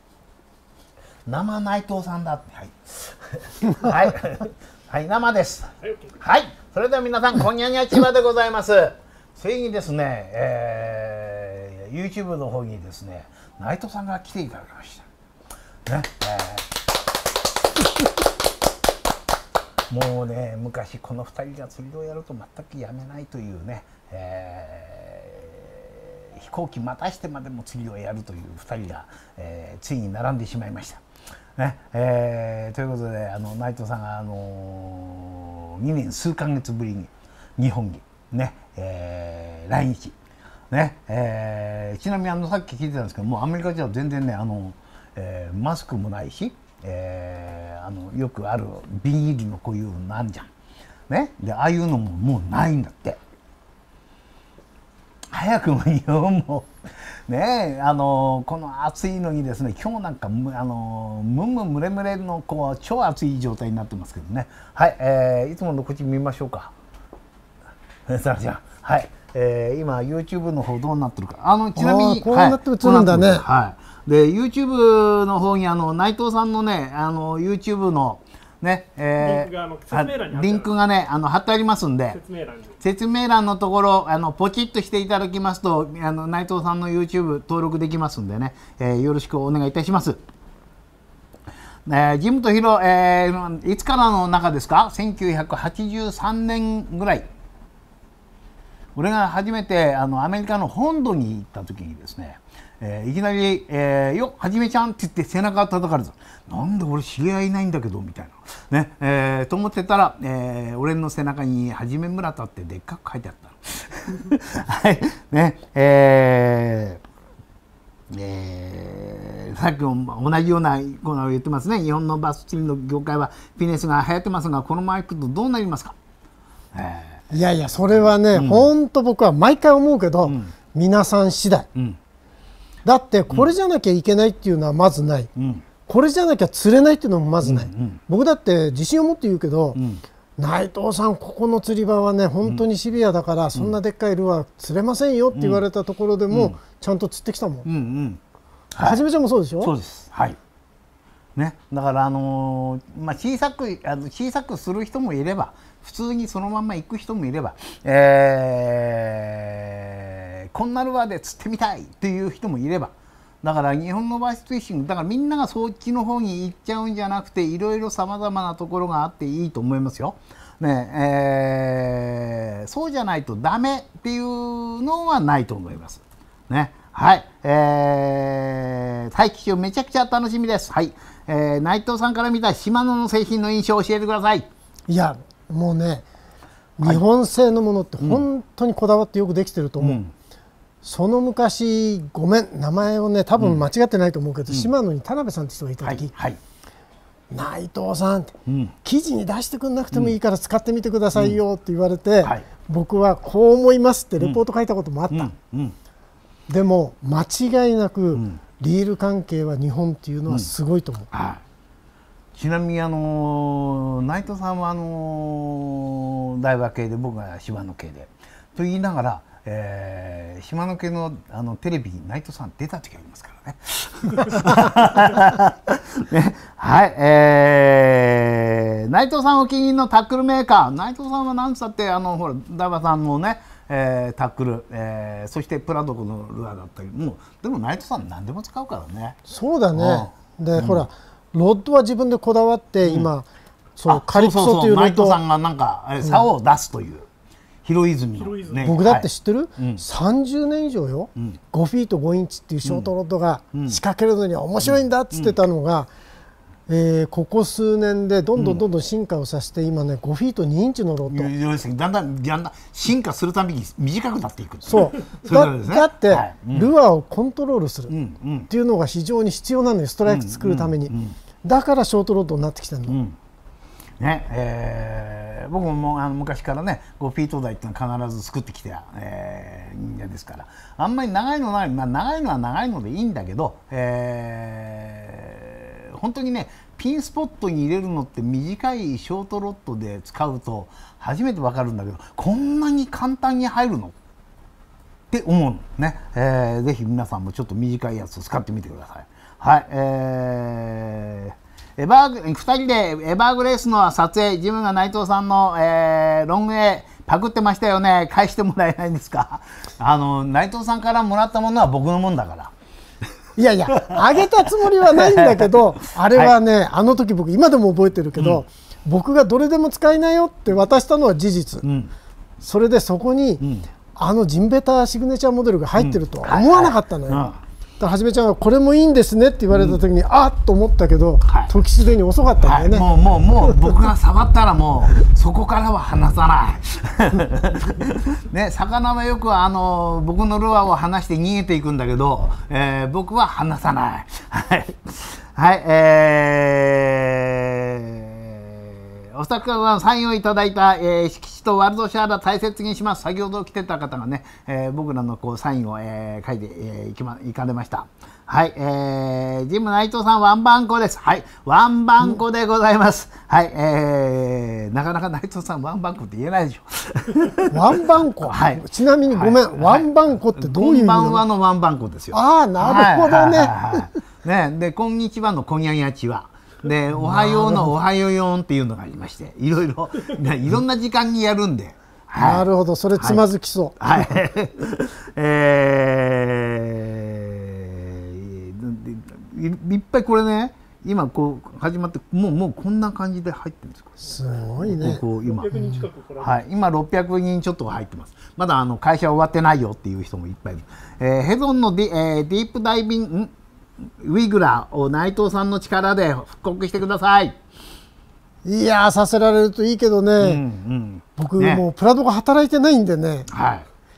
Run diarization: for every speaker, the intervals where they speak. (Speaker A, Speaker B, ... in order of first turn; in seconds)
Speaker A: 1.3-15.1, 15.9-16.7, 19.9-31.0, 31.6-40.1, 40.7-50.5, 51.1-53.2, 55.3-56.7, 57.3-66.7, 68.1-82.2, 82.8-90.2, 91.9-97.3, 99.0-117.0, 118.1-126.0, 126.7-127.3, 128.3-128.7, 130.2-130.5, 135.4-135.7, 137.4-138.0, 139.7-140.0, 145.3-145.6, 146.3-146.6, 147.6-148.2, 148.7-149.0, 149.6-150.4, 151.4-184.5, 189.8-190.1, 193.4-193.6, 195.8-196.4, 198.5-198.8, 201.1-201.4, 205.1-205.8, 208.1-208.4, 211.1-211.4, 212.3-239.2, 239.7-240.9, 242.8-243.1, 243.9-247.1, 247.7-249.8, 252.6-252.9, 253.5-253.8, 254.6-255.3, 258.4-258.6, 261.1-266.7, 267.9-268.5, 270.1-271.2, 272.9-273.2, 274.0-293.9, 295.1-312.5, 314.8-316.4, 318.2-318.4, 321.6-321.9, 323.4-323.7, 325.8-327.4, 329.5-329.8, 332.4-383.2, 383.8-394.0, 394.6-395.6, 396.2-403.3, 404.0-407.4, 410.2-411.6, 413.3-413.7
Speaker B: 71.8-73.5, 127.3-131.7, 132.8-135.3, 135.9-139.8, 140.4-147.7, 148.8-149.7, 184.9-186.1, 186.8-190.0, 190.8-196.1, 197.3-205.3, 206.5-211.1, 239.3-245.2, 248.6-255.9, 256.7-261.3, 264.7-267.9, 268.5-273.0, 313.4-321.6, 322.4-323.4, 324.0-327.3, 327.8-332.9, 333.4-333.8, 367.5-371.2, 372.1-373.9, 376.9-377.7, 382.2-384.2, 394.0-395.9, 408.4-410.4, 411.2-413.3
Speaker C: 79.2-80.7, 82.1-82.8, 248.2-248.7, 395.2-396.4